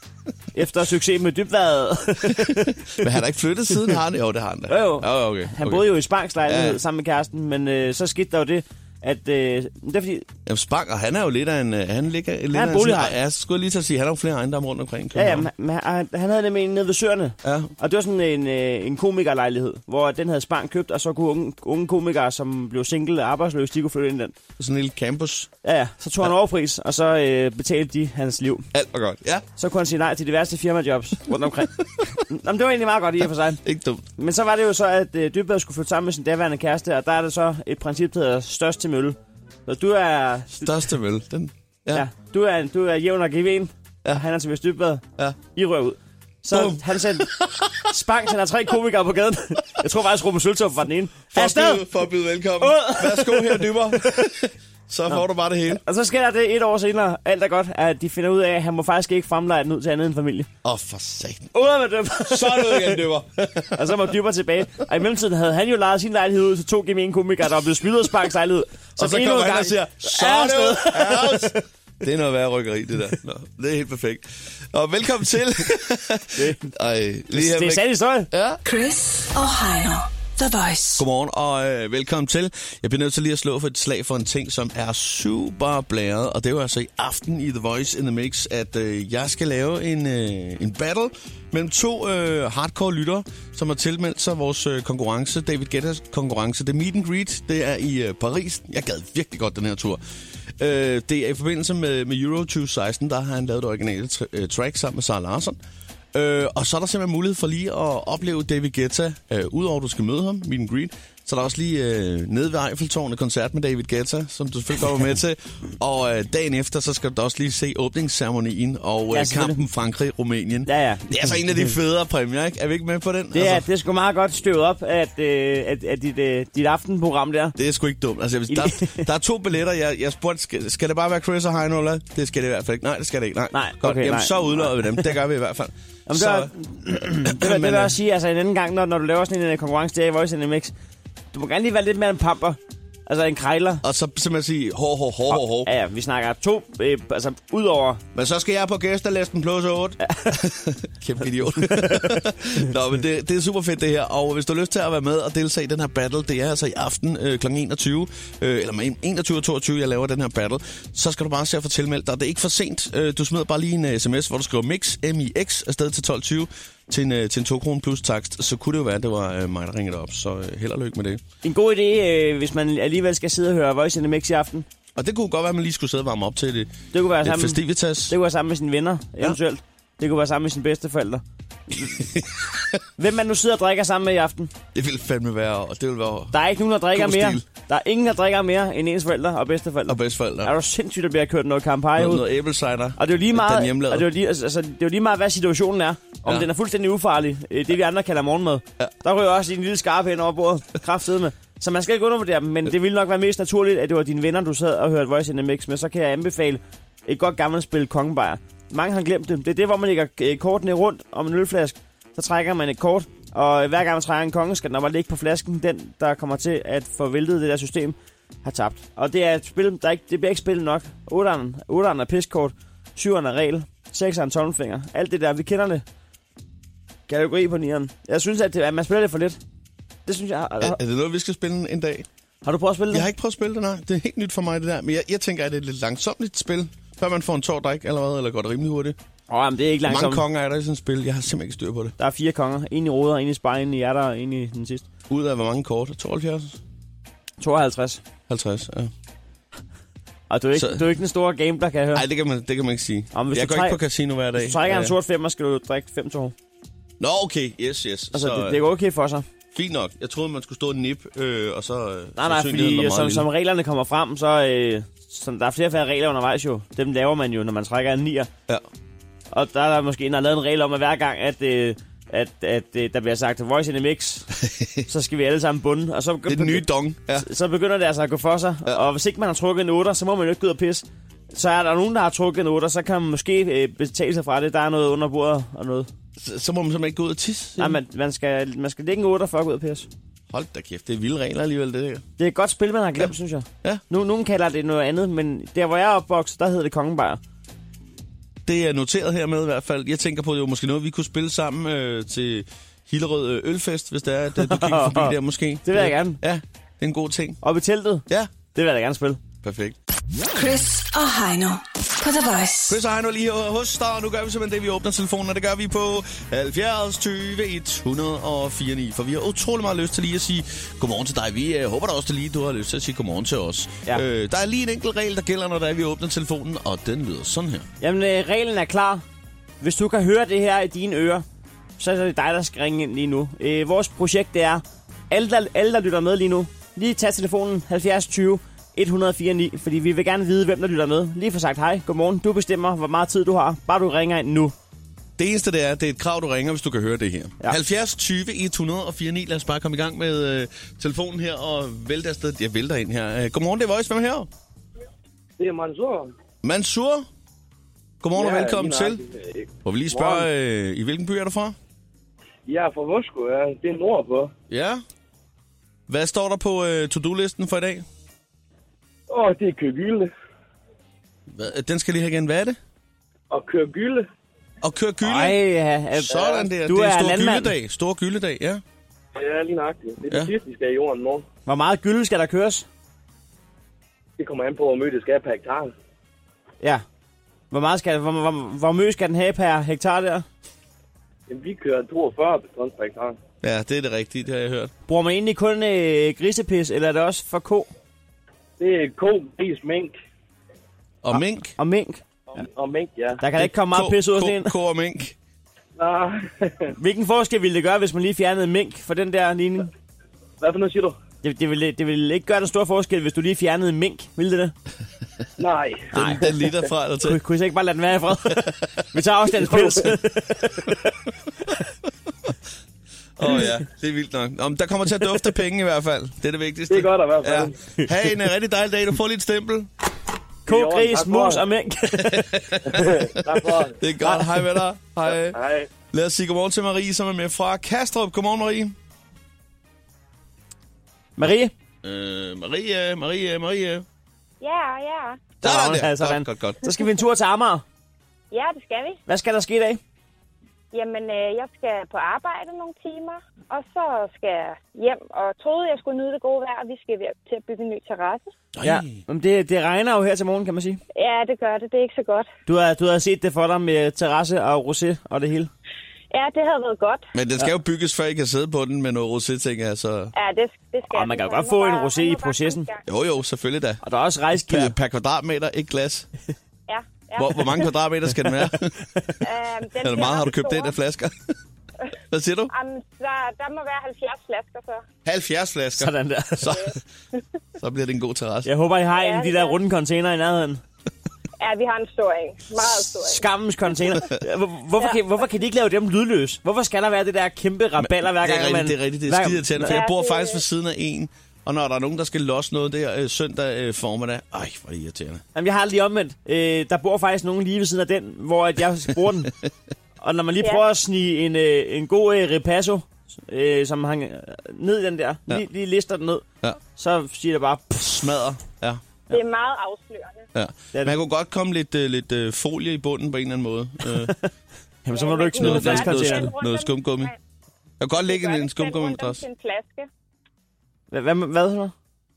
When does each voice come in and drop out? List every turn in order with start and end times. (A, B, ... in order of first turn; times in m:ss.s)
0:00.5-0:02.9 A
0:02.4-0:05.9 B
0:04.7-0:10.3 A
0:06.4-0:06.8 B
0:10.4-0:15.5 B
0:12.5-0:13.2 A
0:15.1-0:24.3 A
0:17.4-0:17.7 B
0:24.6-0:25.5 B
0:25.6-0:28.7 A
0:28.7-0:29.4 B
0:29.6-0:33.6 A
0:33.6-0:34.0 B
0:34.2-0:40.7 A
0:40.6-0:42.0 B
0:41.9-0:47.3 A
0:46.5-0:47.9 B
0:47.8-0:51.9 A
0:51.3-0:55.8 B
0:52.6-0:53.7 A
0:55.8-1:00.5 A
1:00.6-1:01.5 B
1:01.5-1:03.0 A
1:02.3-1:04.0 B
1:03.7-1:11.6 A
1:09.0-1:18.6 B
1:16.4-1:16.7 A
1:17.3-1:18.3 A
1:18.6-1:21.0 C
1:21.0-1:40.0 B
1:40.6-1:45.6 B
1:46.1-2:03.6 B
1:59.1-1:59.6 A
2:00.6-2:01.2 A
2:03.3-2:07.6 A
2:07.6-2:16.5 B
2:08.5-2:09.0 A
2:13.5-2:15.0 A
2:16.1-2:20.7 A
2:17.2-2:18.0 B
2:21.3-2:23.8 A
2:23.8-2:25.7 B
2:25.3-2:28.0 A
2:28.1-2:51.2 B
2:30.0-2:30.3 A
2:31.7-2:32.1 A
2:51.4-2:54.6 A
2:55.0-2:58.1 B
2:56.9-3:01.2 A
3:01.9-3:02.8 B
3:03.0-3:04.5 A
3:04.7-3:06.4 B
3:06.3-3:12.3 A
3:06.9-3:07.4 B
3:09.9-3:10.5 B
3:12.0-3:14.1 B
3:13.0-3:45.8 A
3:47.1-3:49.4 A
3:50.0-3:50.8 A
3:50.6-3:52.1 B
3:52.4-3:53.1 A
3:52.9-3:59.0 B
3:59.3-4:00.2 A
3:59.8-4:01.9 B
4:02.0-4:04.8 A
4:05.1-4:06.6 B
4:07.4-4:08.0 A
4:08.3-4:08.9 B
4:10.3-4:12.0 A
4:10.6-4:10.8 B
4:11.9-4:15.0 B
4:13.1-4:13.8 A
4:14.4-4:16.3 A
4:17.0-4:18.6 B
4:18.1-4:19.2 A
4:19.5-4:23.3 B
4:22.2-4:28.3 A
4:29.3-4:34.3 A
4:34.4-4:34.8 B
4:34.9-4:45.9 A
4:36.3-4:37.2 B
4:46.2-4:47.8 B
4:47.6-4:49.9 A
4:50.3-4:52.0 B
4:52.2-4:57.2 A
4:58.4-5:07.4 B
5:04.4-5:06.2 A
5:07.4-5:09.2 A
5:09.4-5:09.8 B
5:10.3-5:12.7 C
5:12.7-5:27.7 B
5:27.8-5:29.0 A
5:29.6-5:31.2 A
5:31.8-5:44.5 A
5:45.2-5:54.3 B
5:55.4-5:56.1 D
5:56.4-5:57.1 B
5:58.0-5:59.0 B
5:58.1-6:00.2 D
5:59.6-6:01.6 B
6:02.5-6:04.3 D
6:04.5-6:04.8 B
6:05.9-6:07.8 B
6:09.1-6:10.1 D
6:11.3-6:12.6 B
6:13.3-6:14.1 D
6:14.6-6:15.4 B
6:15.0-6:17.5 A
6:16.1-6:18.6 B
6:16.1-6:16.4 D
6:19.1-6:21.2 D
6:21.5-6:22.6 A
6:24.2-6:25.7 D
6:27.5-6:30.2 A
6:31.3-6:33.2 D
6:33.4-6:34.7 B
6:34.9-6:37.7 A
6:38.6-6:39.9 D
6:41.0-6:41.6 B
6:41.1-6:42.4 A
6:42.4-6:43.2 D
6:43.2-6:44.5 A
6:43.4-6:45.1 B
6:45.8-6:46.7 D
6:46.7-6:49.7 A
6:50.4-6:51.0 D
6:51.2-6:54.5 A
6:55.4-6:56.5 D
6:55.9-6:57.2 B
6:55.9-6:56.2 A
6:57.0-7:00.7 A
6:59.5-6:59.9 D
7:03.2-7:09.7 B
7:06.7-7:07.6 D
7:10.5-7:11.4 D
7:10.5-7:12.3 A
7:12.0-7:15.4 B
7:12.7-7:13.8 D
7:14.0-7:14.4 A
7:15.3-7:15.7 D
7:15.9-7:18.7 B
7:21.2-7:21.5 A
7:21.8-7:23.8 B
7:24.4-7:25.3 E
7:25.4-7:26.6 B
7:25.4-7:27.6 A
7:28.3-7:29.0 E
7:29.1-7:29.8 A
7:30.7-7:38.3 E
7:38.6-7:39.0 B
7:38.6-7:40.8 A
7:40.9-7:42.3 E
7:42.4-7:45.5 A
7:46.1-7:47.0 E
7:47.1-7:50.1 B
7:50.1-7:52.8 E
7:50.9-7:52.7 A
7:52.9-7:53.8 B
7:53.8-7:54.7 A
7:54.5-7:56.1 B
7:56.7-7:57.7 E
7:57.2-7:58.8 B
7:59.2-8:00.7 E
7:59.8-8:01.3 B
8:02.1-8:02.5 B
8:02.5-8:04.8 E
8:05.0-8:06.8 B
8:05.8-8:06.6 A
8:07.6-8:08.5 B
8:08.4-8:10.6 A
8:09.0-8:09.6 E
8:11.4-8:13.2 E
8:13.0-8:19.8 A
8:17.8-8:25.2 B
8:19.6-8:20.4 E
8:25.3-8:29.3 A
8:30.0-8:36.2 A
8:36.8-8:37.9 A
8:37.8-8:38.8 B
8:39.1-8:40.2 E
8:40.3-8:44.2 B
8:40.7-8:41.0 A
8:43.9-8:44.3 A
8:44.8-8:46.3 A
8:44.9-8:47.1 E
8:45.4-8:47.1 B
8:47.8-8:49.2 B
8:48.0-8:49.9 E
8:50.9-8:51.7 A